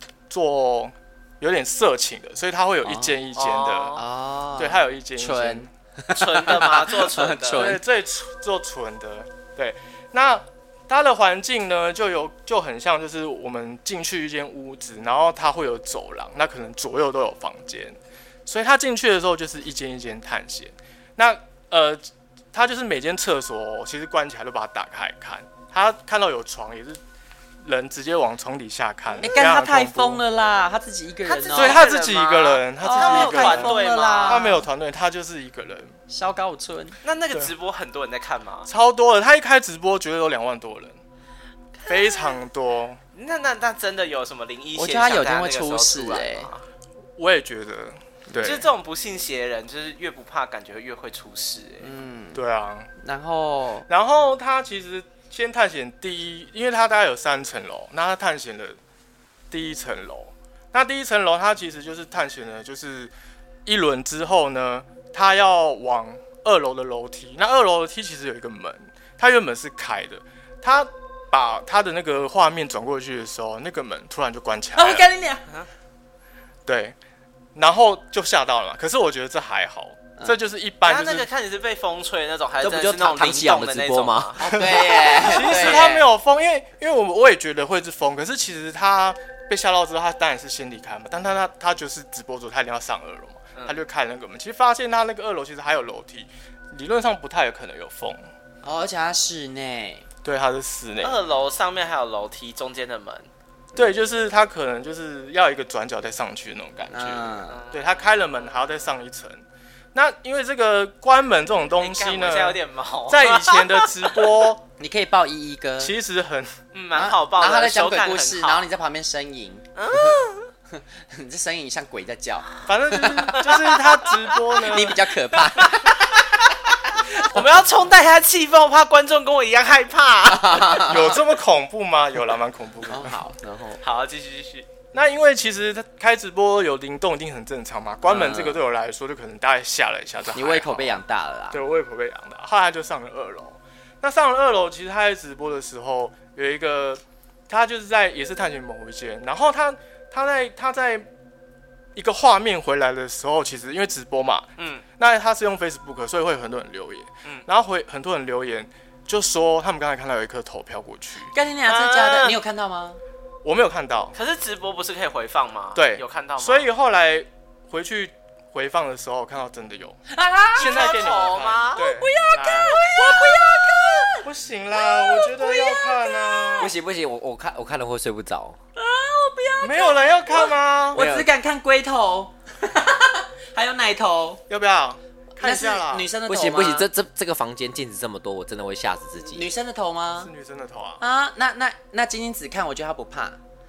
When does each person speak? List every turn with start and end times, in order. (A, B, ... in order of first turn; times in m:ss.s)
0:00.3-0:04.0 A
0:02.8-0:03.2 B
0:03.4-0:04.0 C
0:03.9-0:07.8 B
0:04.6-0:05.7 A
0:06.1-0:07.7 C
0:07.5-0:27.0 A
0:27.6-0:30.2 A
0:29.2-0:31.9 B
0:31.2-0:34.5 C
0:31.5-0:36.0 A
0:32.8-0:34.7 B
0:36.1-0:37.0 B
0:37.0-0:38.7 C
0:38.7-0:41.0 A
0:41.9-0:43.0 A
0:43.1-0:46.6 C
0:44.7-0:46.5 B
0:47.2-0:48.7 A
0:48.4-0:51.9 C
0:51.8-0:52.4 B
0:52.3-0:52.9 A
0:53.0-0:53.9 B
0:53.9-0:58.8 A
0:59.5-1:03.1 A
1:03.6-1:15.1 A
1:14.7-1:15.4 B
1:16.6-1:17.0 A
1:17.5-1:21.3 A
1:20.8-1:24.4 C
1:22.6-1:24.3 D
1:24.4-1:26.1 B
1:24.4-1:38.3 A
1:38.6-1:40.1 B
1:40.2-1:41.2 A
1:41.0-1:43.3 C
1:43.7-1:49.4 A
1:46.9-1:47.6 B
1:47.5-1:48.6 C
1:49.9-1:54.6 A
1:51.8-1:54.0 C
1:54.8-1:55.9 B
1:55.8-1:56.6 A
1:56.7-1:58.6 C
1:56.9-2:00.2 B
1:59.8-2:00.5 C
2:00.7-2:03.6 B
2:02.6-2:05.0 A
2:04.5-2:06.0 B
2:05.5-2:10.9 C
2:07.0-2:07.4 B
2:10.3-2:11.2 B
2:10.8-2:13.2 A
2:12.8-2:13.8 B
2:13.8-2:14.7 C
2:14.9-2:21.0 A
2:18.1-2:18.6 B
2:20.3-2:21.6 B
2:21.5-2:31.1 A
2:31.9-2:41.3 A
2:34.6-2:34.8 C
2:41.3-2:43.0 B
2:41.7-2:42.4 C
2:43.4-2:44.1 A
2:44.1-2:46.6 C
2:45.7-2:50.0 A
2:50.1-2:50.9 B
2:50.5-2:51.8 C
2:50.5-2:52.9 A
2:51.8-2:56.7 B
2:54.2-2:56.7 A
2:56.6-2:58.6 D
2:58.8-3:04.4 B
2:59.6-3:01.0 A
3:00.9-3:01.3 D
3:04.5-3:06.1 A
3:05.4-3:06.9 B
3:06.3-3:09.5 D
3:09.2-3:10.3 B
3:10.2-3:11.0 A
3:11.0-3:13.4 B